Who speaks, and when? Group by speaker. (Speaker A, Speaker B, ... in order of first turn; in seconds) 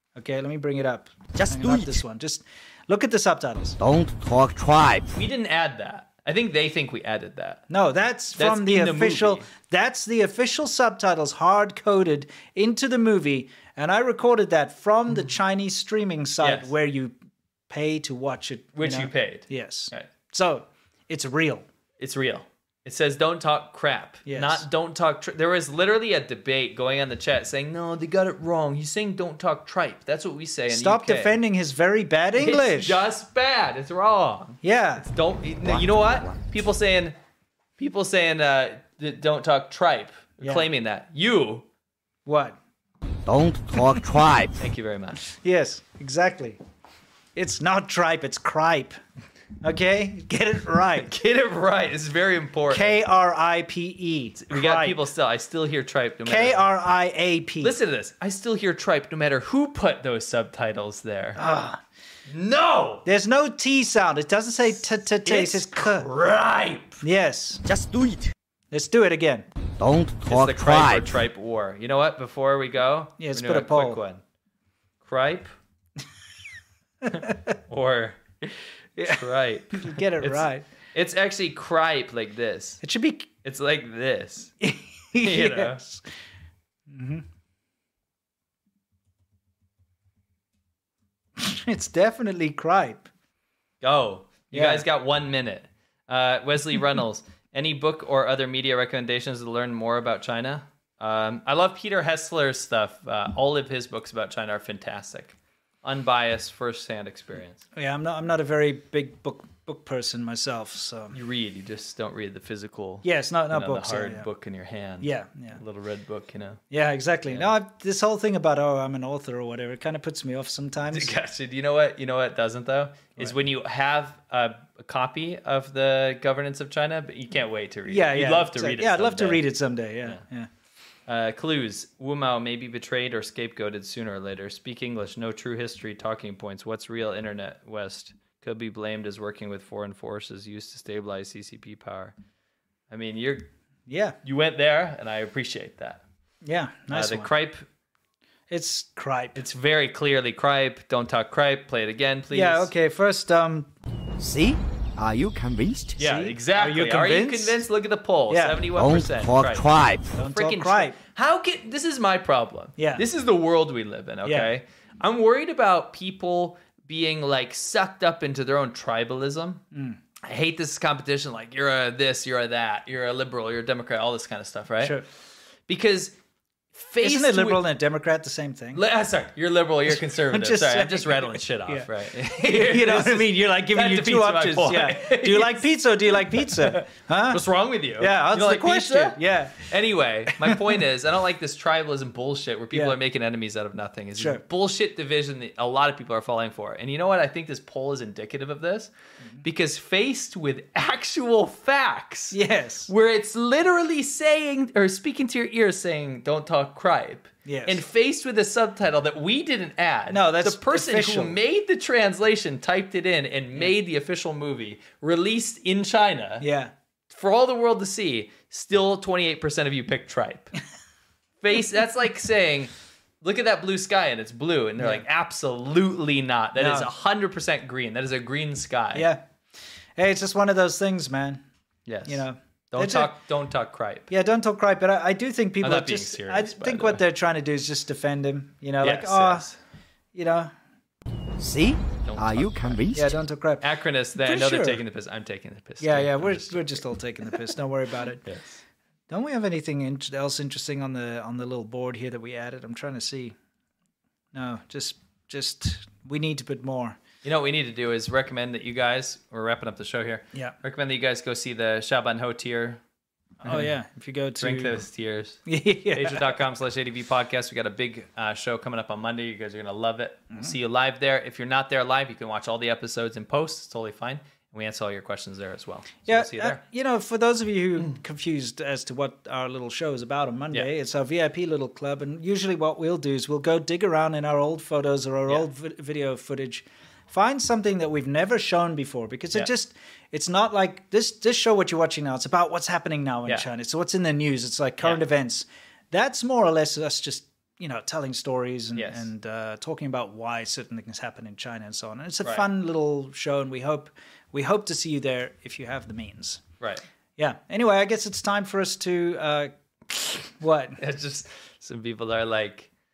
Speaker A: 0.2-3.8, 7.7-17.2, 17.7-21.7, 24.3-24.7, 30.7-33.0, 34.6-35.0, 40.4-40.7, 42.3-42.6, 45.3-46.6, 47.4-49.0, 49.6-51.1, 52.7-55.0, 56.2-57.8, 61.4-61.8, 63.0-66.1, 67.0-67.7, 68.7-69.5, 73.2-74.0, 79.0-80.7, 82.8-83.3, 84.6-86.1, 86.9-87.3, 91.4-93.1, 94.5-94.9, 107.8-111.2, 113.0-114.3, 115.0-115.6, 116.7-121.1, 127.9-130.5, 143.9-144.2, 146.4-147.3, 148.5-149.4, 152.3-153.7, 156.0-157.6, 158.3-158.7, 160.1-161.0, 162.8-163.0, 164.2-164.5, 169.7-170.0, 174.8-175.1, 177.0-178.8, 179.9-181.9, 182.4-187.4, 188.0-189.7, 190.4-190.8, 192.7-193.0, 194.2-194.4, 202.3-202.9, 207.4-207.8, 210.1-211.4, 216.4-216.7, 224.8-225.1, 226.6-226.9, 228.9-229.2, 230.0-231.4, 232.1-233.2, 234.1-239.5, 240.1-240.5, 242.9-244.8, 245.8-248.3, 249.1-253.4, 254.3-257.0, 263.4-264.8, 265.5-266.4, 276.1-306.4, 307.2-309.5, 310.4-310.8
Speaker B: 1.3-2.0, 3.8-5.1, 35.6-36.3, 43.3-44.5, 67.7-68.3, 69.8-71.1, 154.2-156.0, 158.7-160.1, 241.4-243.2
Speaker C: 5.1-7.7, 8.4-9.5, 16.4-16.7, 18.8-20.1, 22.0-31.4, 32.4-37.2, 37.8-41.7, 44.6-45.2, 51.0-53.0, 54.4-56.7, 57.6-61.4, 62.3-63.0, 65.2-67.0, 70.3-74.2, 75.0-75.5, 77.1-82.8, 83.4-84.5, 85.2-85.8, 93.8-107.7, 111.1-116.6, 120.9-129.4, 131.1-142.2, 142.9-143.5, 144.2-146.0, 146.9-147.7, 149.3-152.7, 156.0-169.6, 170.2-175.1, 175.7-176.2, 176.7-177.6, 178.7-216.5, 217.1-220.6, 221.4-229.1, 231.9-234.1, 235.6-237.0, 238.8-239.6, 242.0-243.1, 243.6-246.8, 248.2-248.6, 257.2-262.8, 263.4-263.7, 264.4-265.4, 265.9-276.6, 298.8-299.1, 310.8-312.7